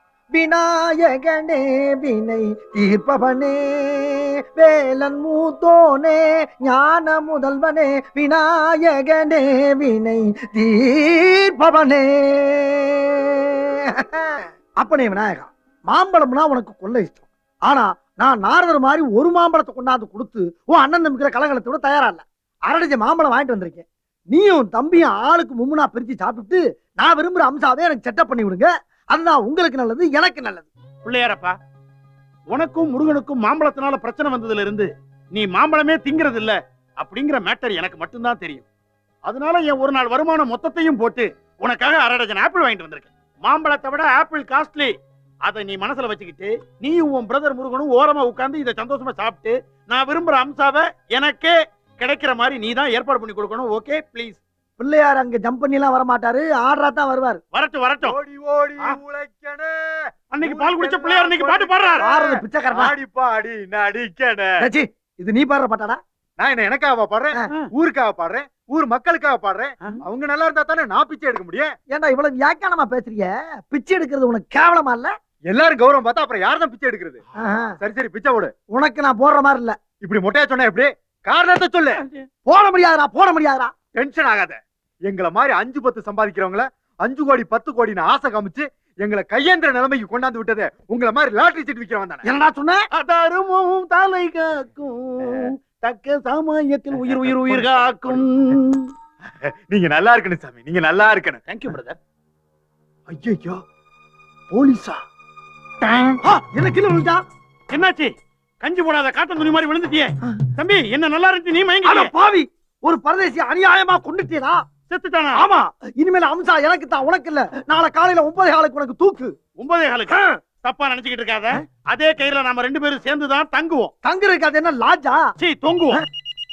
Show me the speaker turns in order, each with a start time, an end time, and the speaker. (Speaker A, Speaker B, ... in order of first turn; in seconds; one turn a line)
Speaker A: 0.3-30.7
Speaker B: 31.0-31.6
Speaker B: 32.5-38.7
Speaker B: 39.2-44.9
Speaker B: 45.5-54.4
Speaker A: 54.8-57.4
Speaker B: 57.5-58.1
Speaker C: 58.0-64.6
Speaker B: 60.3-62.0
Speaker A: 62.0-62.9
Speaker A: 64.6-66.0
Speaker C: 66.4-71.7
Speaker A: 71.9-75.1
Speaker C: 75.5-77.2
Speaker A: 77.4-77.8
Speaker C: 77.8-78.5
Speaker A: 78.7-79.8
Speaker C: 80.0-82.0
Speaker A: 82.5-83.7
Speaker C: 84.0-92.3
Speaker A: 92.2-92.8
Speaker B: 93.0-98.9
Speaker C: 97.0-98.2
Speaker C: 99.5-101.4
Speaker B: 101.5-102.0
Speaker C: 103.1-103.6
Speaker C: 104.5-105.0
Speaker B: 105.8-106.2
Speaker A: 106.2-107.2
Speaker B: 107.7-112.1
Speaker A: 111.8-114.6
Speaker B: 114.9-115.4
Speaker A: 115.4-119.3
Speaker B: 119.6-123.9
Speaker A: 124.0-125.3
Speaker B: 125.4-126.0